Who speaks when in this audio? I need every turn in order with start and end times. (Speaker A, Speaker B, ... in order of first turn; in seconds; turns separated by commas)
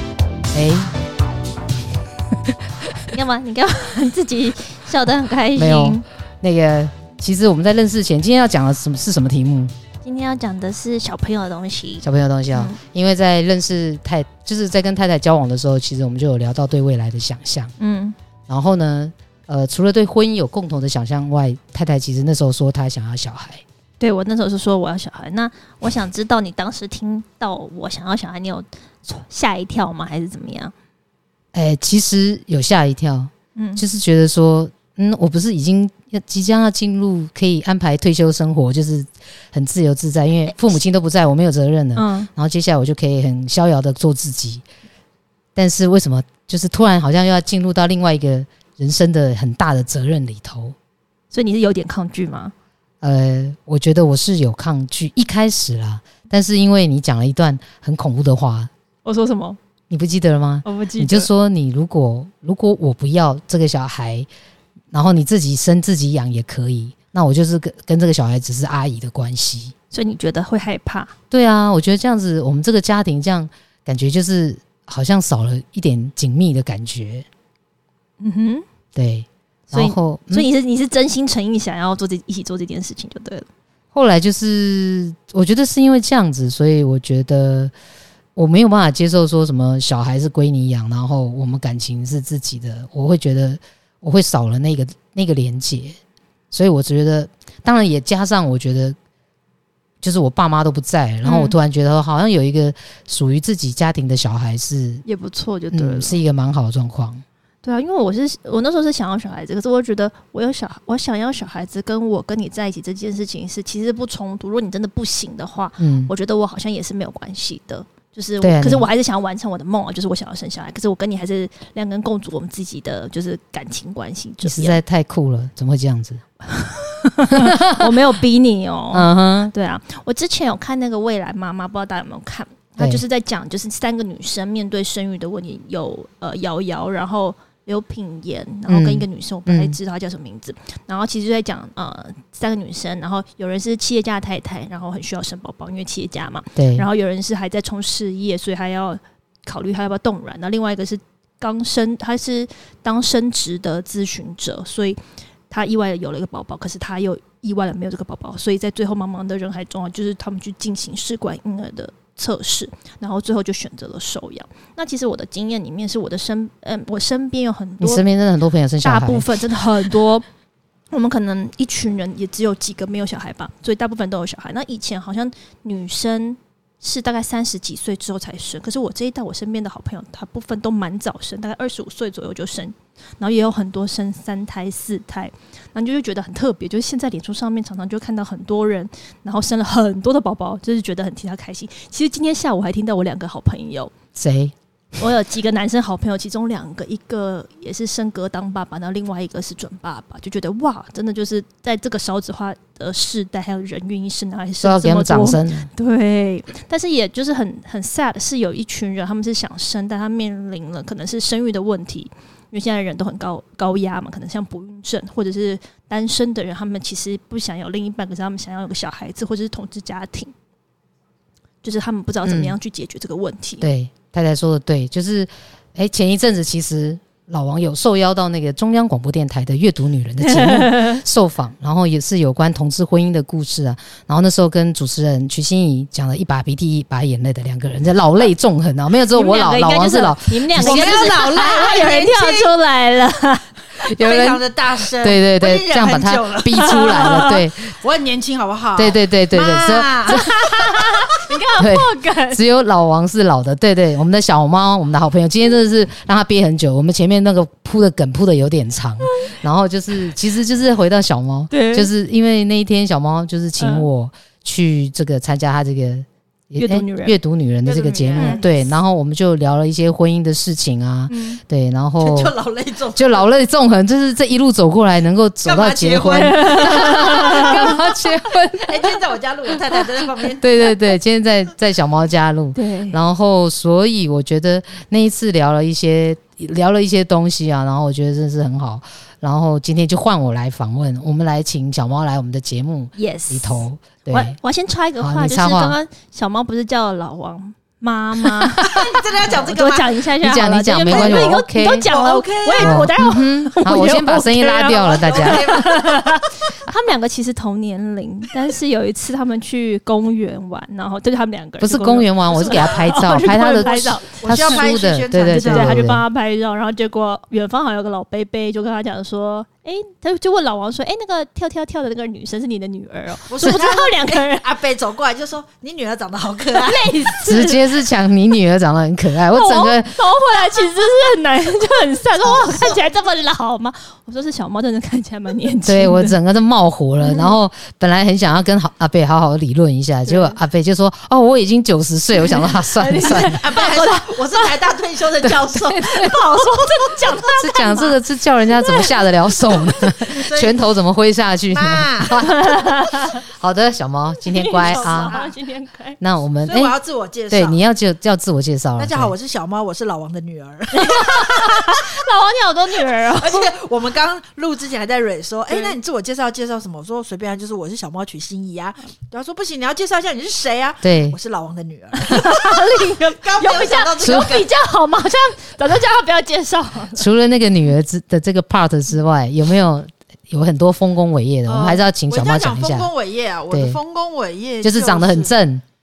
Speaker A: 0.5-0.9, Speaker B: 3.0-6.0, Speaker A: 5.5-9.7, Speaker B: 10.0-12.8, Speaker A: 12.0-17.7, Speaker B: 17.8-18.2, Speaker A: 18.5-23.6, Speaker B: 24.0-30.7, Speaker A: 31.5-44.6, Speaker B: 33.6-33.8, Speaker B: 42.0-42.3, Speaker A: 45.6-50.8, Speaker B: 51.3-52.5, Speaker A: 53.0-58.7, Speaker B: 59.0-59.6, Speaker A: 59.9-64.3, Speaker B: 60.6-61.3, Speaker A: 64.9-69.7, Speaker B: 69.9-71.1, Speaker A: 71.3-77.3, Speaker B: 78.2-78.7, Speaker A: 79.0-80.5, Speaker B: 79.7-83.5, Speaker A: 83.9-87.7, Speaker A: 88.4-96.0, Speaker A: 96.5-99.0, Speaker A: 100.0-105.0, Speaker B: 101.2-101.5, Speaker B: 105.1-106.2, Speaker A: 105.7-107.2, Speaker B: 107.6-124.8, Speaker A: 115.8-116.1, Speaker A: 118.4-118.9, Speaker A: 124.4-126.2, Speaker B: 126.5-155.0, Speaker A: 127.3-128.0, Speaker A: 128.9-129.5, Speaker A: 132.8-133.0, Speaker A: 138.7-139.8, Speaker A: 146.6-146.9, Speaker B: 155.5-168.0, Speaker A: 167.8-169.3, Speaker B: 168.8-170.3, Speaker B: 170.9-193.9, Speaker A: 194.2-194.6, Speaker B: 195.0-220.3, Speaker A: 204.6-205.7, Speaker B: 221.6-223.7, Speaker A: 222.2-222.6, Speaker A: 223.6-241.1, Speaker B: 230.2-231.0, Speaker B: 239.1-243.5, Speaker C: 240.6-242.5, Speaker A: 243.8-244.4, Speaker C: 244.0-251.4, Speaker A: 245.0-247.7, Speaker B: 246.5-247.4, Speaker A: 248.8-250.4, Speaker B: 250.4-252.4, Speaker A: 251.6-272.3, Speaker B: 259.0-259.4, Speaker B: 261.5-261.9, Speaker B: 263.6-263.9, Speaker B: 266.6-267.2, Speaker C: 267.6-268.4, Speaker B: 268.2-268.4, Speaker B: 271.1-271.4, Speaker C: 272.0-273.3, Speaker A: 272.9-278.9, Speaker C: 275.4-278.0, Speaker B: 276.1-277.7, Speaker C: 278.6-280.7, Speaker A: 280.4-294.4, Speaker B: 282.6-283.0, Speaker B: 293.0-314.7, Speaker A: 295.0-295.8, Speaker A: 298.3-298.6, Speaker C: 298.6-300.1, Speaker A: 300.2-301.9, Speaker C: 300.8-301.4, Speaker C: 301.9-302.9, Speaker A: 302.6-305.5, Speaker C: 304.7-306.5, Speaker A: 311.6-316.0, Speaker C: 312.3-313.0, Speaker C: 313.6-315.9, Speaker B: 315.3-324.4, Speaker C: 323.3-327.1, Speaker B: 326.5-327.8, Speaker A: 327.2-330.0, Speaker B: 329.3-336.2, Speaker A: 335.6-343.4, Speaker B: 337.0-337.4, Speaker B: 340.1-340.4, Speaker B: 342.2-344.5, Speaker C: 343.4-347.8, Speaker B: 345.8-348.0, Speaker A: 347.4-352.6, Speaker B: 348.5-349.0, Speaker C: 349.5-350.6, Speaker C: 351.5-352.6, Speaker B: 352.1-353.2, Speaker A: 353.2-355.2, Speaker B: 354.2-356.0, Speaker C: 354.6-355.3, Speaker A: 356.0-356.8, Speaker C: 356.4-357.6, Speaker A: 357.3-359.1, Speaker C: 358.8-362.0, Speaker B: 360.7-363.5, Speaker C: 363.1-374.5, Speaker B: 365.5-365.8, Speaker A: 370.8-371.2, Speaker B: 372.0-377.1, Speaker A: 374.0-374.3, Speaker A: 377.0-382.9, Speaker C: 381.5-385.4, Speaker A: 383.5-383.8, Speaker A: 384.6-385.6